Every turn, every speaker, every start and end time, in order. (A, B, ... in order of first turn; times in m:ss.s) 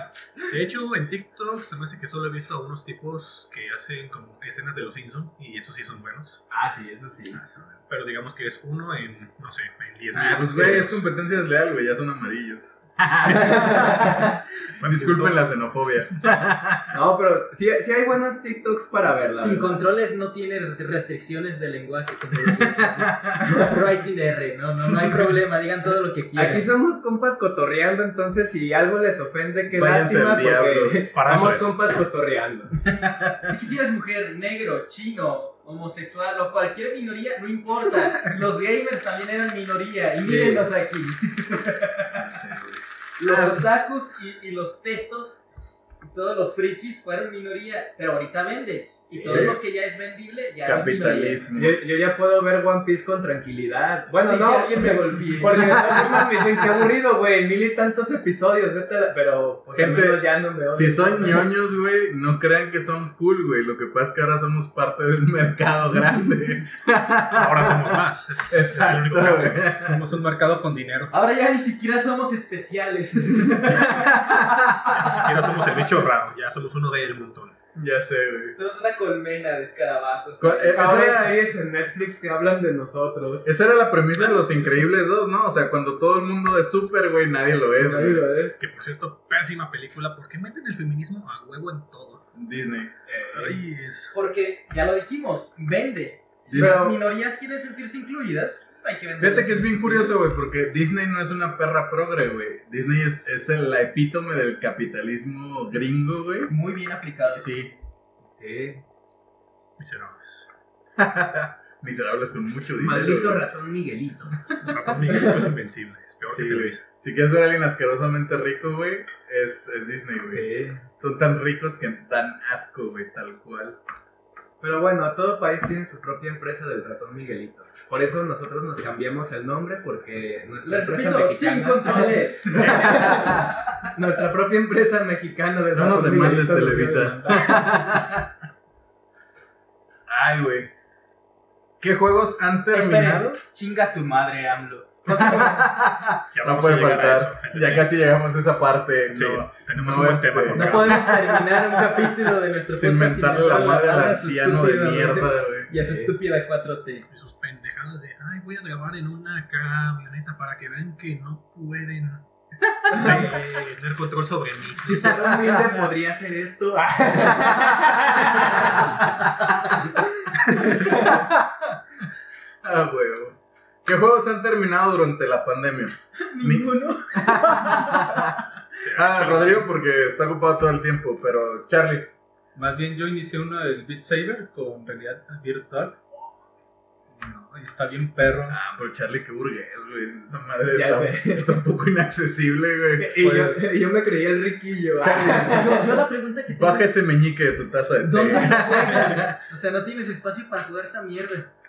0:00.5-0:06.4 A
0:06.5-0:07.4 B
0:07.3-0:07.8 C
0:07.9-0:11.0 A
0:10.1-0:16.9 C
0:13.3-0:14.3 B
0:14.8-0:15.7 A
0:16.9-0:19.8 B
0:19.4-0:26.7 D
0:22.4-0:23.4 C
0:26.3-0:32.8 B
0:29.7-0:31.0 C
0:31.1-0:31.9 A
0:32.8-0:33.5 C
0:33.4-0:42.4 D
0:40.2-0:40.7 B
0:42.2-0:43.6 C
0:43.2-0:45.4 D
0:46.0-0:51.4 D
0:49.1-0:49.5 B
0:49.2-0:49.6 C
0:50.6-0:51.8 C
0:51.5-1:01.5 B
0:54.2-0:56.2 D
0:59.7-1:08.0 C
1:07.3-1:09.6 A
1:08.5-1:10.0 C
1:09.7-1:11.1 E
1:11.1-1:14.4 D
1:13.7-1:15.5 C
1:14.9-1:17.6 A
1:17.8-1:18.6 C
1:18.5-1:21.1 D
1:20.4-1:21.4 C
1:20.7-1:23.5 B
1:23.4-1:28.3 C
1:24.1-1:24.8 A
1:27.8-1:28.6 B
1:28.6-1:32.3 A
1:32.3-1:32.9 C
1:33.1-1:33.6 B
1:33.3-1:34.1 A
1:34.1-1:40.2 D
1:36.5-1:37.0 B
1:36.5-1:36.8 C
1:39.2-1:46.5 C
1:46.5-1:47.5 D
1:47.3-1:47.8 C
1:48.4-1:48.8 B
1:49.8-1:50.5 A
1:51.0-1:53.4 C
1:52.8-1:54.4 B
1:54.6-1:56.8 A
1:56.3-2:03.8 C
2:00.3-2:00.8 B
2:04.6-2:13.4 B
2:10.6-2:13.6 D
2:12.5-2:13.5 C
2:13.9-2:17.6 B
2:15.7-2:18.3 C
2:20.1-2:20.7 C
2:21.8-2:23.4 C
2:22.7-2:25.6 D
2:25.1-2:32.1 C
2:26.3-2:27.9 A
2:29.1-2:31.1 A
2:30.5-2:37.0 D
2:32.7-2:35.7 C
2:35.7-2:36.1 B
2:37.1-2:42.2 A
2:42.9-2:45.2 A
2:42.9-2:43.4 C
2:44.8-2:49.0 B
2:45.1-2:45.5 C
2:47.4-2:48.6 C
2:50.5-2:51.1 B
2:50.6-2:51.5 C
2:52.6-3:02.1 C
2:56.3-2:58.2 D
2:58.8-2:59.7 A
3:02.5-3:06.3 E
3:07.1-3:08.6 E
3:08.5-3:13.2 C
3:10.7-3:11.6 B
3:13.0-3:16.0 B
3:13.2-3:13.7 E
3:15.0-3:15.8 C
3:15.2-3:16.9 D
3:16.5-3:19.4 C
3:18.0-3:21.5 D
3:18.4-3:19.2 B